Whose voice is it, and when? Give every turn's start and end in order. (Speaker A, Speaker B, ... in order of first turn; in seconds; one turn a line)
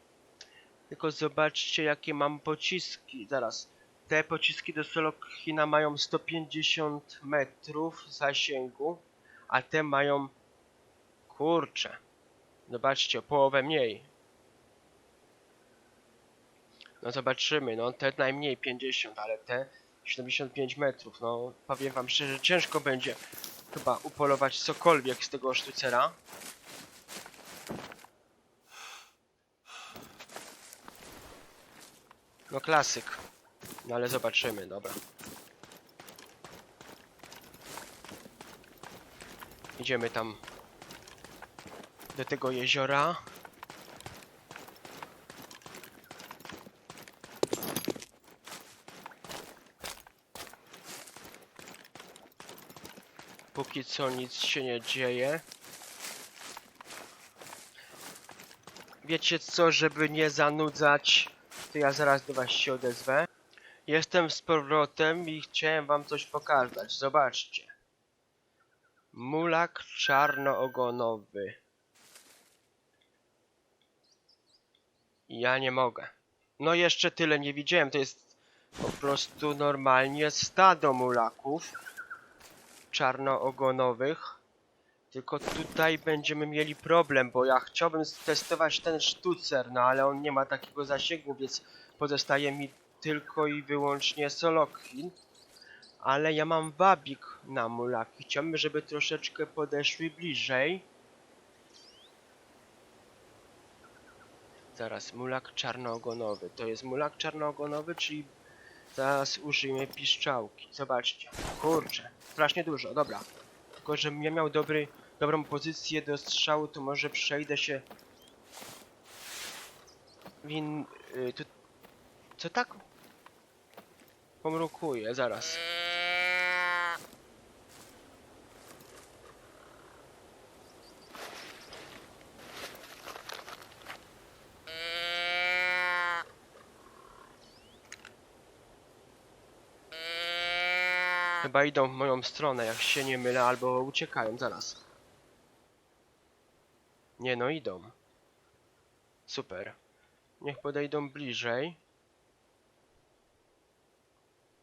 Speaker A: 0.9-10.3
Speaker A: 11.3-12.0
Speaker A: 12.7-14.1
Speaker A: 17.0-23.2
Speaker A: 23.7-26.2
Speaker A: 32.5-33.2
Speaker A: 33.8-35.0
Speaker A: 39.8-40.4
Speaker A: 42.1-43.2
Speaker A: 53.5-55.5
Speaker A: 59.0-63.3
Speaker A: 63.9-67.7
Speaker A: 69.1-71.6
Speaker A: 75.3-81.8
Speaker A: 82.9-84.4
Speaker A: 85.1-95.2
Speaker A: 96.0-100.9
Speaker A: 104.8-108.3
Speaker A: 108.9-117.9
Speaker A: 120.4-121.5
Speaker A: 122.4-122.8
Speaker A: 124.4-125.6
Speaker A: 141.4-144.8
Speaker A: 147.2-147.9
Speaker A: 149.3-149.8
Speaker A: 150.4-151.8